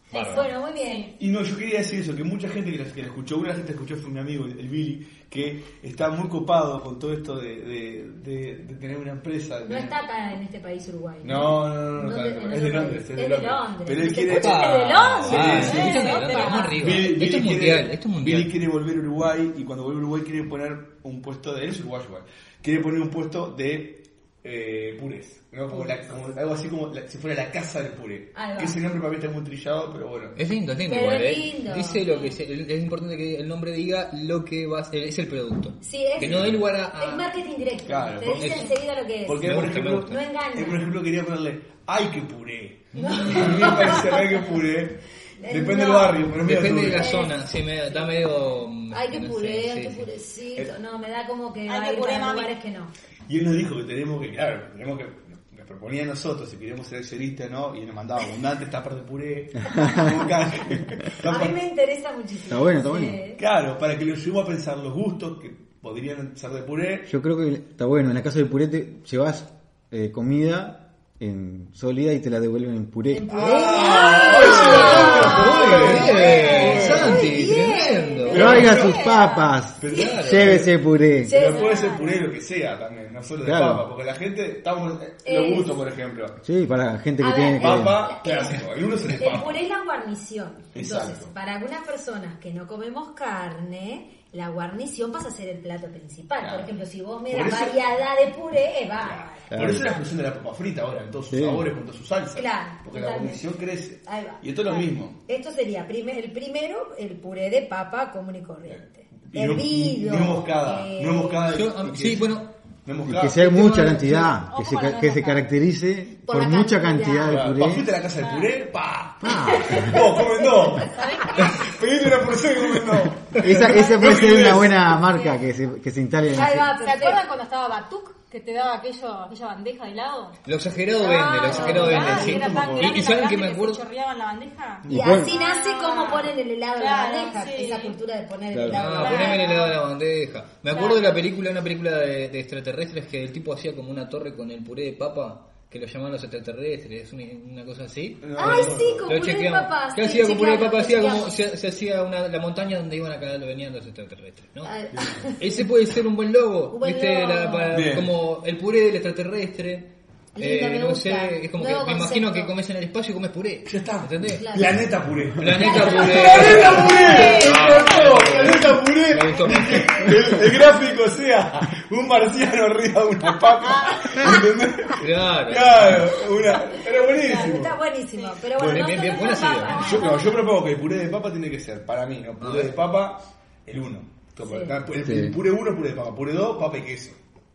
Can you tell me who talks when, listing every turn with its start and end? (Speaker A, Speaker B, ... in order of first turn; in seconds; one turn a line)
Speaker A: 0.1-0.5
Speaker B: 0.1-1.1
Speaker C: 0.3-1.1
Speaker D: 1.2-9.9
Speaker B: 9.6-16.7
Speaker D: 11.2-30.4
Speaker A: 14.3-18.5
Speaker C: 15.4-16.8
Speaker B: 28.3-28.8
Speaker A: 30.4-37.3
Speaker B: 30.9-32.2
Speaker B: 35.8-39.5
Speaker D: 36.2-36.6
Speaker D: 37.9-47.2
Speaker A: 38.4-38.7
Speaker A: 39.4-40.2
Speaker B: 40.1-40.8
Speaker A: 42.9-43.7
Speaker B: 43.0-44.2
Speaker B: 45.4-46.3
Speaker A: 46.4-50.1
Speaker B: 47.0-47.4
Speaker B: 48.9-52.9
Speaker C: 51.7-52.5
Speaker D: 53.3-61.5
Speaker B: 59.8-60.1
Speaker B: 61.2-63.4
Speaker E: 62.5-63.2
Speaker D: 63.4-67.1
Speaker E: 67.1-73.5
Speaker B: 73.1-79.3
Speaker D: 73.3-77.3
Speaker A: 74.8-78.6
Speaker C: 76.4-76.8
Speaker D: 78.3-79.1
Speaker E: 78.3-81.3
Speaker C: 78.4-79.5
Speaker D: 79.8-80.7
Speaker A: 79.9-80.6
Speaker B: 81.2-81.9
Speaker D: 81.2-86.4
Speaker C: 81.4-82.2
Speaker E: 83.4-83.8
Speaker B: 85.2-85.8
Speaker E: 86.4-88.1
Speaker B: 87.2-99.6
Speaker D: 87.5-89.6
Speaker D: 90.7-91.3
Speaker D: 96.4-96.7
Speaker D: 97.3-97.8
Speaker D: 99.0-105.2
Speaker E: 99.5-99.9
Speaker E: 101.3-101.7
Speaker B: 102.3-103.4
Speaker B: 104.0-111.4
Speaker D: 108.7-113.7
Speaker A: 111.5-112.5
Speaker E: 113.0-117.9
Speaker A: 113.4-114.3
Speaker C: 114.5-115.5
Speaker B: 116.2-117.4
Speaker D: 117.2-125.0
Speaker C: 118.2-118.5
Speaker E: 119.2-120.0
Speaker B: 119.5-121.0
Speaker C: 120.9-121.7
Speaker E: 123.3-126.8
Speaker B: 126.3-127.2
Speaker C: 126.8-130.4
Speaker A: 130.4-133.8
Speaker C: 131.0-137.9
Speaker B: 131.0-132.2
Speaker D: 131.5-133.0
Speaker E: 134.8-135.3
Speaker B: 134.9-139.7
Speaker E: 138.5-139.0
Speaker A: 138.7-154.7
Speaker C: 139.0-139.7
Speaker C: 140.7-141.0
Speaker D: 148.2-149.1
Speaker B: 148.4-151.4
Speaker B: 154.6-155.6
Speaker D: 154.9-155.2
Speaker A: 155.4-164.4
Speaker B: 156.7-157.8
Speaker D: 157.7-158.1
Speaker B: 160.3-162.6
Speaker D: 163.6-177.8
Speaker B: 164.3-164.8
Speaker A: 165.4-170.2
Speaker B: 165.6-167.7
Speaker C: 167.0-168.5
Speaker C: 169.3-170.1
Speaker C: 173.7-174.2
Speaker A: 175.0-176.0
Speaker B: 177.1-180.3
Speaker C: 178.1-180.4
Speaker D: 178.6-179.0
Speaker A: 178.6-179.9
Speaker D: 179.7-187.2
Speaker A: 182.4-182.8
Speaker B: 184.4-184.8
Speaker E: 185.0-185.4